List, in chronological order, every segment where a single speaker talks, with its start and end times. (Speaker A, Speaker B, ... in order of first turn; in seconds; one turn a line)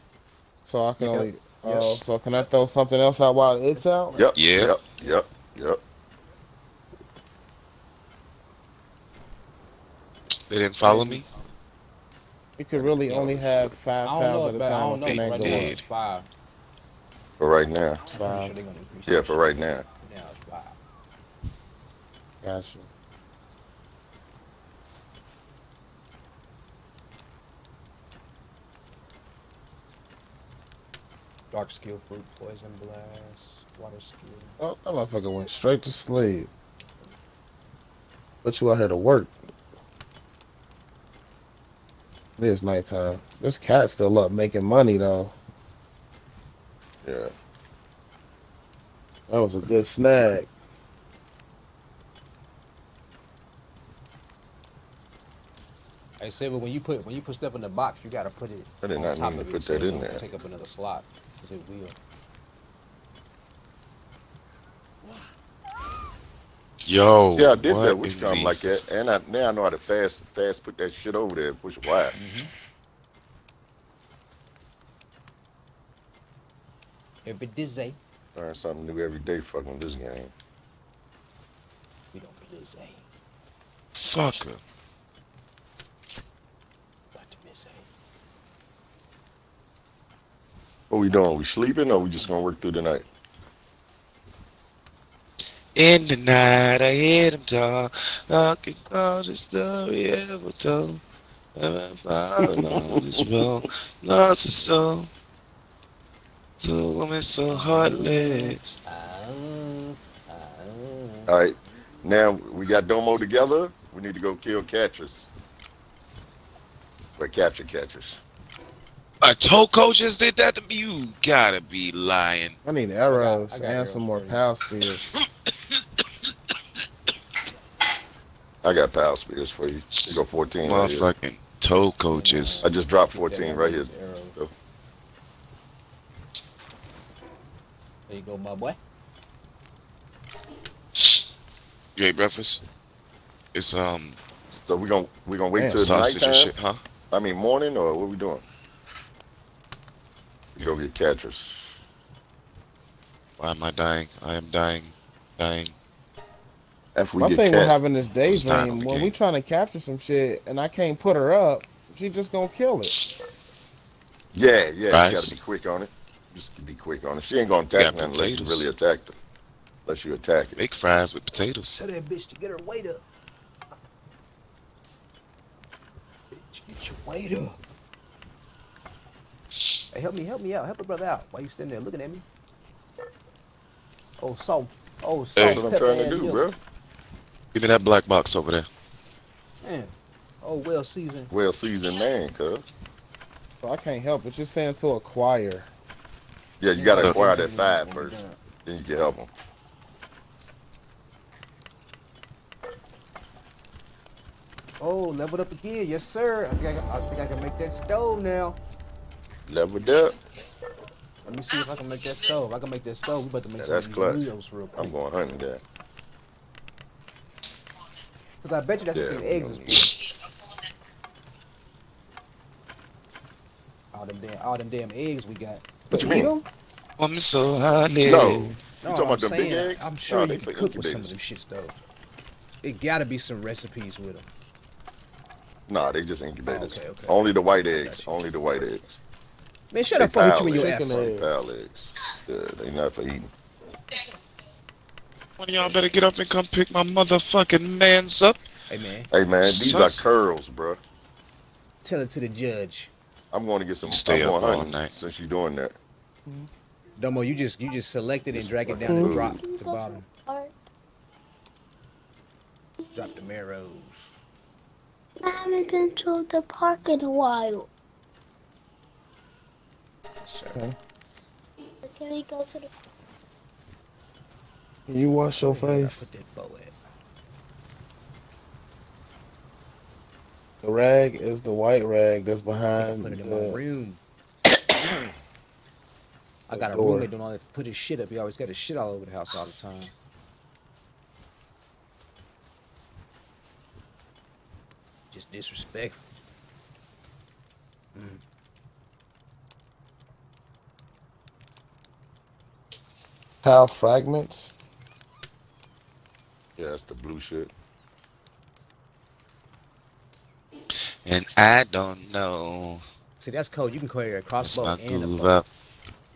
Speaker A: 0.6-4.2
Speaker B: 1.0-2.0
Speaker B: 3.8-4.3
Speaker C: 4.1-5.8
Speaker D: 4.3-4.7
Speaker D: 10.5-11.3
Speaker B: 10.8-11.4
Speaker A: 12.6-15.8
Speaker C: 12.7-13.7
Speaker B: 14.0-16.3
Speaker D: 15.0-15.8
Speaker C: 17.4-18.0
Speaker B: 18.1-20.8
Speaker A: 18.1-18.6
Speaker C: 19.1-19.8
Speaker A: 22.4-22.9
Speaker B: 31.5-34.5
Speaker A: 34.6-36.5
Speaker A: 38.4-39.3
Speaker A: 42.4-45.4
Speaker C: 47.0-47.3
Speaker A: 49.3-50.5
Speaker B: 56.2-62.0
Speaker C: 58.8-60.2
Speaker D: 66.8-68.8
Speaker C: 67.4-72.2
Speaker B: 72.2-72.5
Speaker B: 77.2-78.0
Speaker C: 78.3-80.3
Speaker B: 82.1-83.0
Speaker D: 84.0-84.6
Speaker B: 87.1-87.9
Speaker C: 90.9-93.0
Speaker D: 95.7-101.0
Speaker D: 101.5-105.1
Speaker C: 102.6-103.0
Speaker D: 106.6-108.8
Speaker B: 107.5-111.4
Speaker C: 111.3-115.3
Speaker C: 117.2-118.2
Speaker D: 119.2-122.6
Speaker A: 122.6-125.1
Speaker B: 123.1-124.4
Speaker D: 125.1-126.0
Speaker C: 128.6-131.1
Speaker D: 130.1-132.7
Speaker B: 132.1-134.4
Speaker C: 132.6-134.5
Speaker B: 138.1-138.8
Speaker D: 141.9-142.6
Speaker D: 143.5-144.2
Speaker C: 144.7-146.5
Speaker A: 145.6-145.9
Speaker D: 145.7-146.8
Speaker C: 147.1-148.4
Speaker C: 150.6-151.8
Speaker D: 153.4-155.7
Speaker C: 156.9-157.8
Speaker A: 157.2-162.9
Speaker D: 158.2-159.1
Speaker C: 164.3-169.2
Speaker D: 164.9-165.4
Speaker D: 167.7-168.7
Speaker C: 169.8-170.6
Speaker D: 170.6-171.8
Speaker B: 171.8-173.0
Speaker B: 176.3-177.6
Speaker B: 179.9-182.2
Speaker B: 184.2-186.5
Speaker D: 185.4-185.7
Speaker C: 185.4-186.6
Speaker D: 187.5-188.7
Speaker B: 189.6-191.3
Speaker C: 191.3-192.6
Speaker A: 193.6-195.7
Speaker C: 196.6-199.3
Speaker B: 196.8-198.4
Speaker D: 197.0-197.2
Speaker B: 204.8-208.6
Speaker C: 209.5-210.2
Speaker B: 211.2-215.0
Speaker C: 213.6-215.6
Speaker B: 218.4-219.9
Speaker C: 218.9-219.9
Speaker B: 223.9-225.6
Speaker A: 225.9-226.4
Speaker C: 225.9-226.3
Speaker D: 227.0-228.5
Speaker C: 228.0-231.1
Speaker B: 228.8-231.8
Speaker B: 232.6-234.3
Speaker C: 235.7-238.9
Speaker B: 236.4-238.1
Speaker B: 239.7-241.1
Speaker C: 239.9-243.3
Speaker A: 240.5-241.4
Speaker D: 245.4-248.4
Speaker B: 248.7-249.1
Speaker C: 249.1-250.8
Speaker D: 249.4-250.1
Speaker B: 251.8-252.9
Speaker C: 253.3-255.8
Speaker D: 253.8-254.9
Speaker B: 257.0-260.1
Speaker C: 258.3-259.4
Speaker E: 258.9-260.5
Speaker B: 262.9-264.1
Speaker E: 265.2-267.7
Speaker B: 270.2-270.6
Speaker E: 271.8-272.7
Speaker A: 274.9-276.0
Speaker B: 275.4-276.8
Speaker A: 280.6-283.6
Speaker B: 282.8-284.0
Speaker B: 286.5-289.9
Speaker A: 286.5-287.1
Speaker B: 295.1-296.0
Speaker B: 297.9-298.2
Speaker A: 303.4-304.6
Speaker C: 306.6-307.5
Speaker D: 310.8-312.8
Speaker B: 313.2-315.4
Speaker D: 314.4-315.4